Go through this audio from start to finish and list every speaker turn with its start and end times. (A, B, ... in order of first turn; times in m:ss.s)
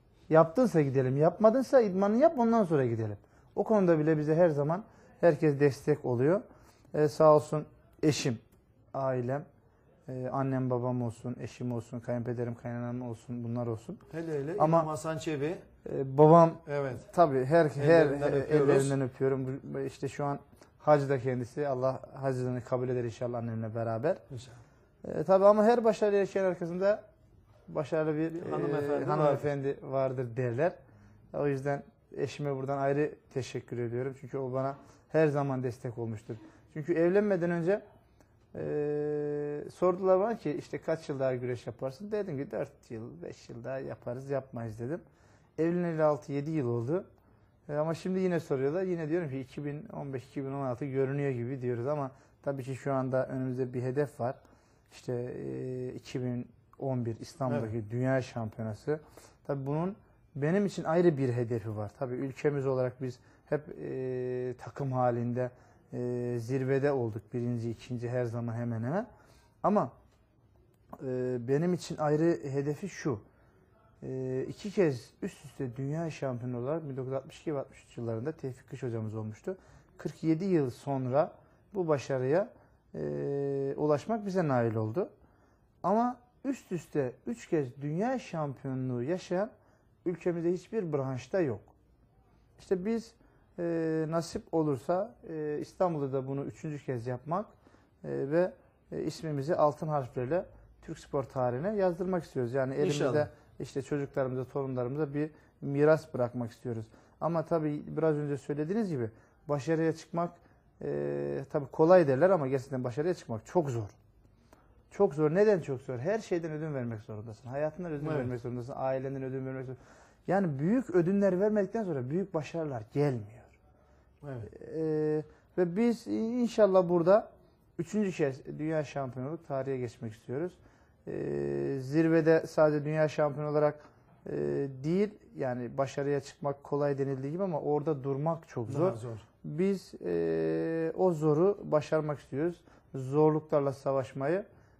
0:00.3-0:08.4 A
0:08.9-0:09.4 A
0:10.1-0:14.0 A
0:14.1-0:15.6 B
0:14.6-0:14.9 A
0:15.8-0:24.2 A
0:16.6-0:17.1 B
0:17.8-0:19.0 B
0:24.3-0:24.6 B
0:25.0-0:27.0 A
0:27.7-0:30.8 A
0:28.4-0:29.5 B
0:31.3-0:37.8 A
0:38.5-0:45.0 A
0:45.6-0:47.0 A
0:47.7-0:54.4 A
0:54.9-1:09.1 A
1:09.6-1:09.9 A
1:11.0-1:13.2 A
1:14.0-1:25.1 A
1:25.8-1:29.5 A
1:30.0-1:31.7 A
1:32.6-1:53.9 A
1:42.8-1:43.3 B
1:54.9-2:03.5 A
1:58.0-1:58.3 B
2:04.2-2:04.5 B
2:04.4-2:07.2 A
2:07.8-2:24.4 A
2:18.7-2:19.2 B